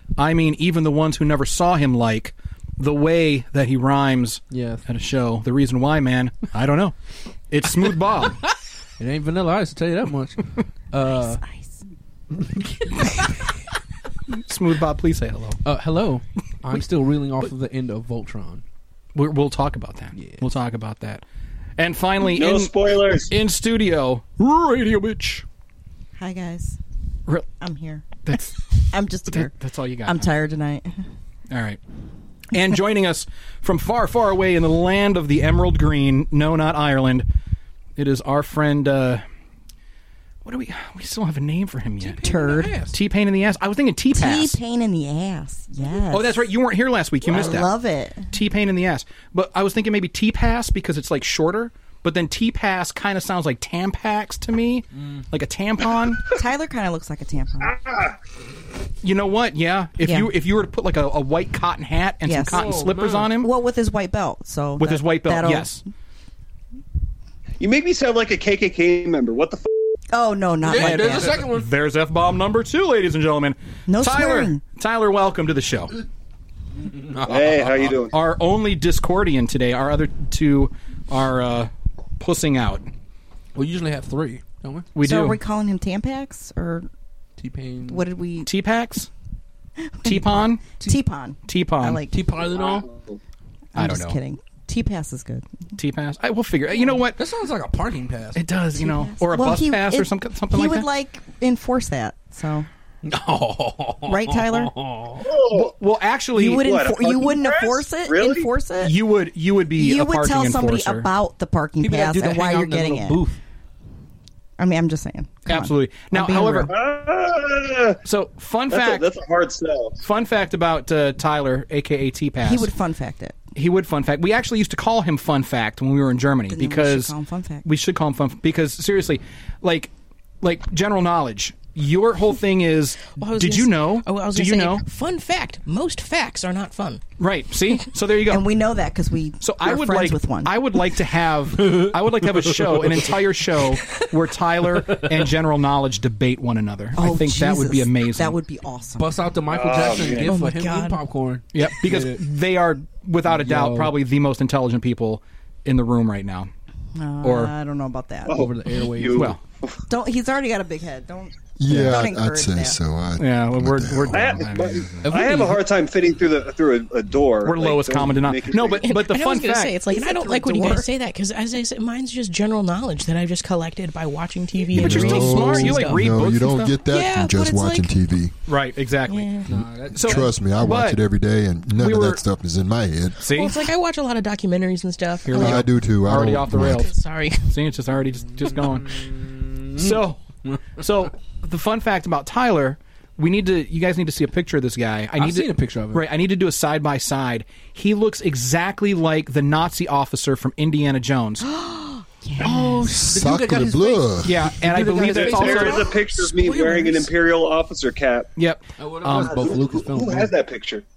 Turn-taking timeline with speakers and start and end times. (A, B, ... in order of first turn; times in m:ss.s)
0:00.2-0:07.0 A
0:04.5-0:04.8 B
0:07.5-0:08.5 A
0:08.5-0:11.4 B
0:11.0-0:11.8 C
0:12.4-0:13.3 B
0:14.3-0:15.6 A
0:15.6-0:18.6 B
0:19.2-0:21.2 A
0:20.2-0:20.5 B
0:21.8-0:25.4 A
0:22.3-0:23.3 D
0:26.2-0:26.8 C
0:27.6-0:28.4 C
0:28.3-0:30.3 A
0:28.9-0:29.5 C
0:30.0-0:31.0 C
0:31.5-0:31.8 A
0:32.5-0:37.3 A
0:38.0-0:39.2 A
0:40.4-0:42.2 A
0:42.0-0:43.0 B
0:42.2-0:42.8 C
0:42.9-0:44.6 A
0:44.1-0:46.5 C
0:46.1-0:47.7 A
0:47.2-0:48.3 C
0:48.3-0:56.3 A
0:54.9-0:55.3 B
0:56.3-0:57.8 C
0:57.6-0:58.2 D
0:59.0-1:03.5 A
1:00.0-1:00.3 C
1:02.2-1:05.8 C
1:02.5-1:03.3 B
1:04.8-1:05.8 A
1:07.6-1:09.7 D
1:10.1-1:11.4 C
1:10.6-1:11.8 B
1:10.7-1:16.0 A
1:13.9-1:14.6 C
1:16.8-1:18.0 B
1:17.3-1:18.1 D
1:18.1-1:22.8 A
1:23.5-1:25.0 B
1:25.0-1:25.4 A
1:25.0-1:26.9 C
1:27.4-1:28.1 B
1:27.8-1:28.5 C
1:28.4-1:29.1 A
1:30.0-1:32.2 C
1:30.0-1:30.7 A
1:31.5-1:32.0 A
1:32.1-1:32.9 B
1:32.6-1:33.2 D
1:33.7-1:35.6 C
1:33.8-1:34.2 A
1:35.8-1:37.2 A
1:37.2-1:38.4 B
1:38.4-1:40.9 A
1:38.8-1:42.7 C
1:43.0-1:45.3 B
1:44.1-1:44.7 C
1:45.2-1:45.7 D
1:45.6-1:46.7 A
1:46.3-1:49.0 C
1:46.6-1:48.5 D
1:48.8-1:51.1 A
1:49.8-1:53.2 C
1:51.8-1:53.4 B
1:54.6-1:56.7 C
1:55.5-1:56.7 A
1:56.7-1:58.0 D
1:58.0-1:59.0 A
1:58.7-2:00.0 D
2:00.0-2:02.7 A
2:02.4-2:03.4 C
2:03.6-2:09.9 A
2:06.5-2:07.7 C
2:10.4-2:14.8 A
2:13.1-2:17.0 E
2:17.2-2:18.5 A
2:18.3-2:20.7 C
2:19.4-2:28.4 A
2:21.6-2:23.1 B
2:27.0-2:29.3 C
2:29.0-2:32.2 B
2:29.5-2:30.4 D
2:30.2-2:31.0 E
2:30.3-2:30.8 C
2:31.5-2:36.5 A
2:33.3-2:33.9 B
2:37.0-2:38.5 C
2:37.2-2:37.5 A
2:38.3-2:39.8 D
2:38.3-2:39.3 B
2:39.9-2:42.8 C
2:41.6-2:44.3 F
2:41.7-2:42.0 B
2:43.2-2:45.2 A
2:44.1-2:48.8 D
2:45.0-2:45.6 B
2:47.4-2:49.8 A
2:48.8-2:56.1 E
2:49.9-2:50.9 C
2:54.7-2:58.4 F
2:54.8-2:56.8 A
2:56.9-2:57.9 E
2:58.5-2:59.3 A
2:59.1-2:59.5 E
2:59.5-3:00.3 B
2:59.5-3:03.2 F
2:59.9-3:01.0 A
3:01.8-3:02.2 A
3:03.2-3:03.6 A
3:03.2-3:05.6 E
3:05.2-3:06.9 A
3:05.3-3:06.9 F
3:06.6-3:07.5 E
3:07.4-3:09.1 A
3:08.4-3:10.6 B
3:09.7-3:10.2 A
3:10.8-3:21.5 A
3:15.2-3:16.1 B
3:21.4-3:23.1 C
3:22.4-3:22.9 A
3:22.4-3:27.0 B
3:23.1-3:24.4 F
3:24.2-3:26.0 A
3:25.1-3:28.3 D
3:28.4-3:29.5 A
3:28.8-3:30.3 B
3:29.3-3:30.8 D